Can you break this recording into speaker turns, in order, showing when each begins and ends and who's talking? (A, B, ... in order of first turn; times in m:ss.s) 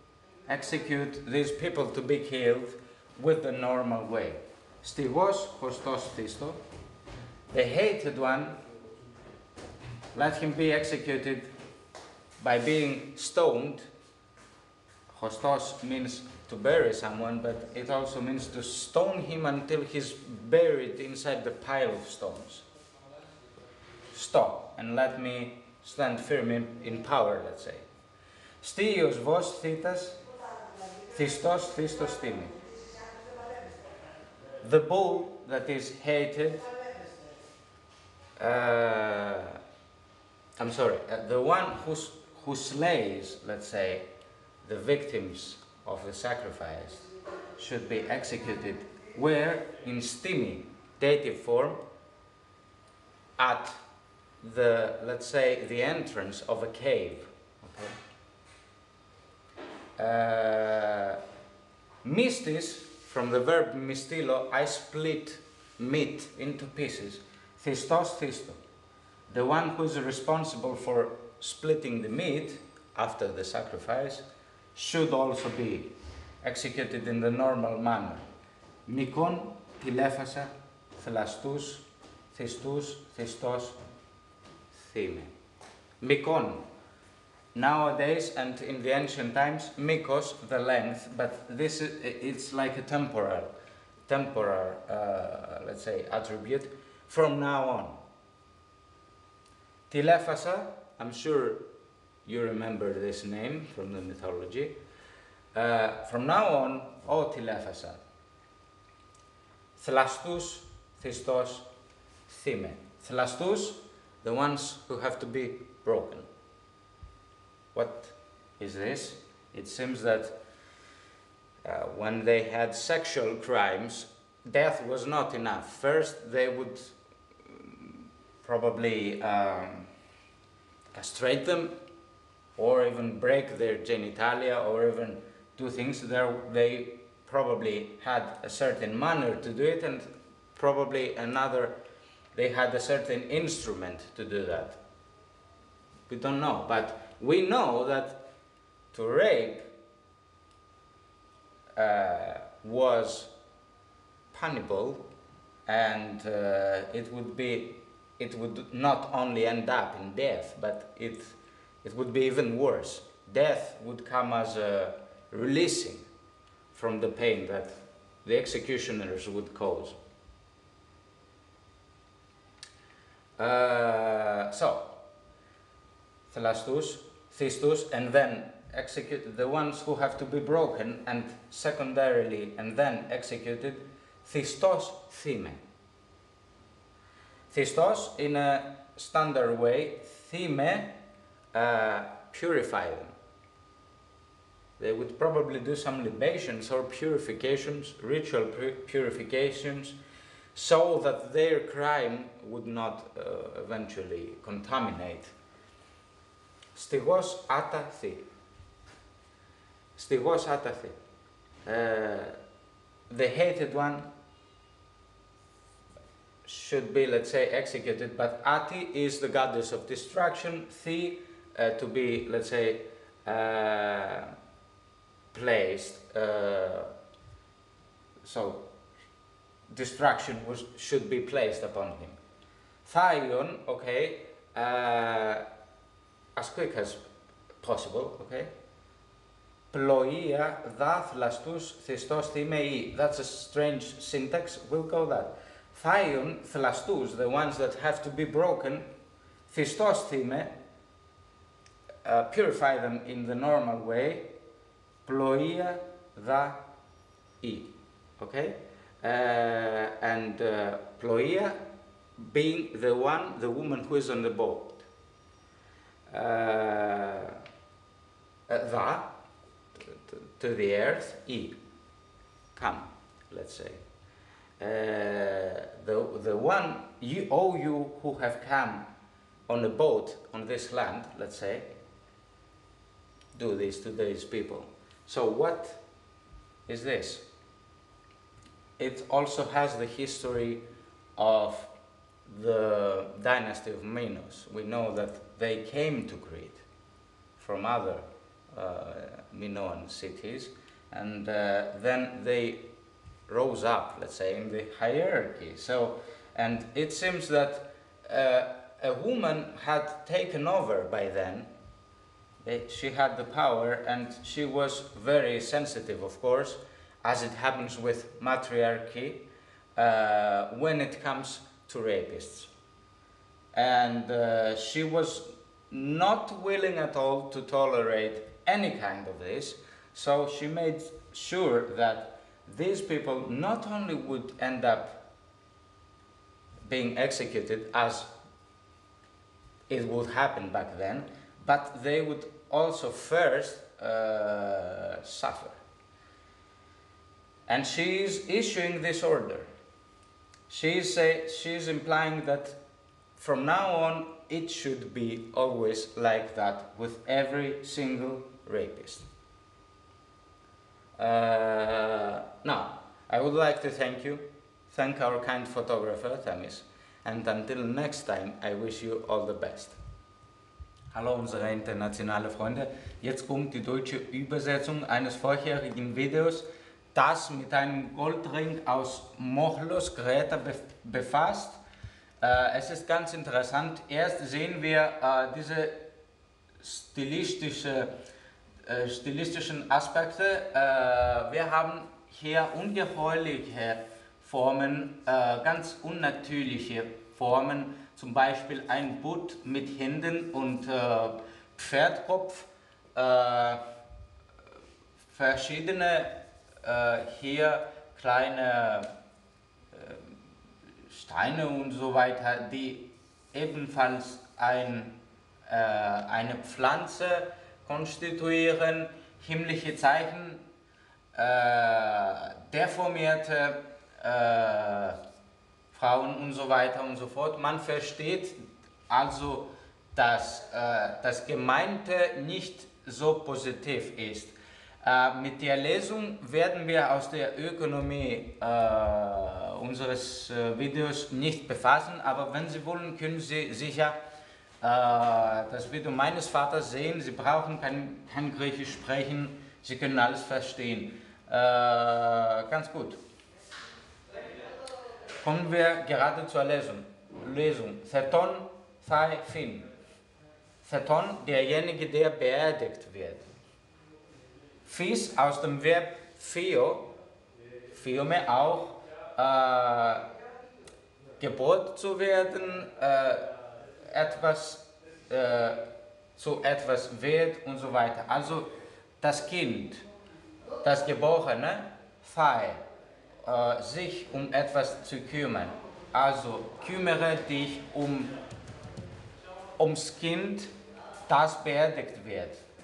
0:00.5-0:06.6 A
0:07.5-0:08.6 A
0:10.1-0:11.5 A
0:12.4-0:13.9 A
0:15.1-0:22.6 A
0:24.1-0:27.8 A
0:28.6-0:30.2 A
0:31.1-0:32.6 A
0:34.6-0:36.7 A
0:38.4-0:39.6 A
0:40.6-0:44.1 A
0:44.6-0:47.0 A
0:47.6-0:51.8 A
0:53.4-0:53.8 A
0:54.4-0:57.9 A
1:00.0-1:01.2 A
1:02.0-1:08.6 A
1:09.3-1:18.2 A
1:18.8-1:23.8 A
1:24.7-1:25.3 A
1:26.0-1:26.6 A
1:27.5-1:33.5 A
1:34.1-1:38.0 A
1:39.9-1:41.6 A
1:42.2-1:44.8 A
1:45.5-1:48.0 A
1:49.8-1:51.7 A
1:52.3-1:56.3 A
1:57.7-2:00.3 A
2:01.6-2:06.9 A
2:07.4-2:09.9 A
2:10.9-2:11.8 A
2:12.6-2:21.8 A
2:22.3-2:24.8 A
2:26.1-2:28.2 A
2:28.9-2:29.7 A
2:31.8-2:33.3 A
2:34.3-2:35.0 A
2:35.7-2:46.0 A
2:46.7-2:50.0 A
2:53.4-2:55.0 A
2:56.3-3:05.6 A
3:07.5-3:11.0 A
3:11.5-3:13.1 A
3:14.8-3:20.0 A
3:20.5-3:25.3 A
3:26.7-3:28.2 A
3:30.0-3:31.0 A
3:31.6-3:32.4 A
3:33.1-3:34.1 A
3:36.4-3:44.3 A
3:45.3-3:46.9 A
3:48.2-3:48.7 A
3:49.7-3:52.2 A
3:52.8-3:55.4 A
3:56.4-3:57.0 A
3:57.6-3:58.5 A
3:59.7-4:08.9 A
4:09.5-4:10.5 A
4:12.0-4:14.3 A
4:15.0-4:16.6 A
4:17.4-4:21.6 A
4:22.2-4:24.8 A
4:26.1-4:27.4 A
4:28.5-4:29.1 A
4:29.8-4:31.6 A
4:32.5-4:33.8 A
4:34.6-4:38.9 A
4:39.5-4:41.7 A
4:43.3-4:45.8 A
4:46.7-4:47.3 A
4:48.8-4:50.6 A
4:51.2-4:51.7 A
4:52.2-4:56.6 A
4:57.4-5:02.7 A
5:03.3-5:11.5 A
5:12.4-5:22.5 A
5:23.5-5:35.0 A
5:36.6-5:38.1 A
5:39.7-5:45.6 A
5:47.5-5:49.5 A
5:50.5-5:52.6 A
5:53.2-5:59.1 A
6:01.0-6:09.8 A
6:10.9-6:21.6 A
6:22.2-6:25.8 A
6:26.6-6:27.9 A
6:28.6-6:43.6 A
6:45.1-6:48.9 A
6:49.7-6:50.1 A
6:50.9-7:00.4 A
7:01.1-7:05.0 A
7:05.7-7:24.0 A
7:24.6-7:33.0 A
7:35.2-7:39.7 A
7:40.6-7:43.2 A
7:44.6-7:46.9 A
7:47.7-7:50.1 A
7:51.2-7:53.3 A
7:53.9-7:59.8 A
8:00.6-8:02.6 A
8:03.2-8:08.1 A
8:09.6-8:10.5 A
8:11.1-8:12.4 A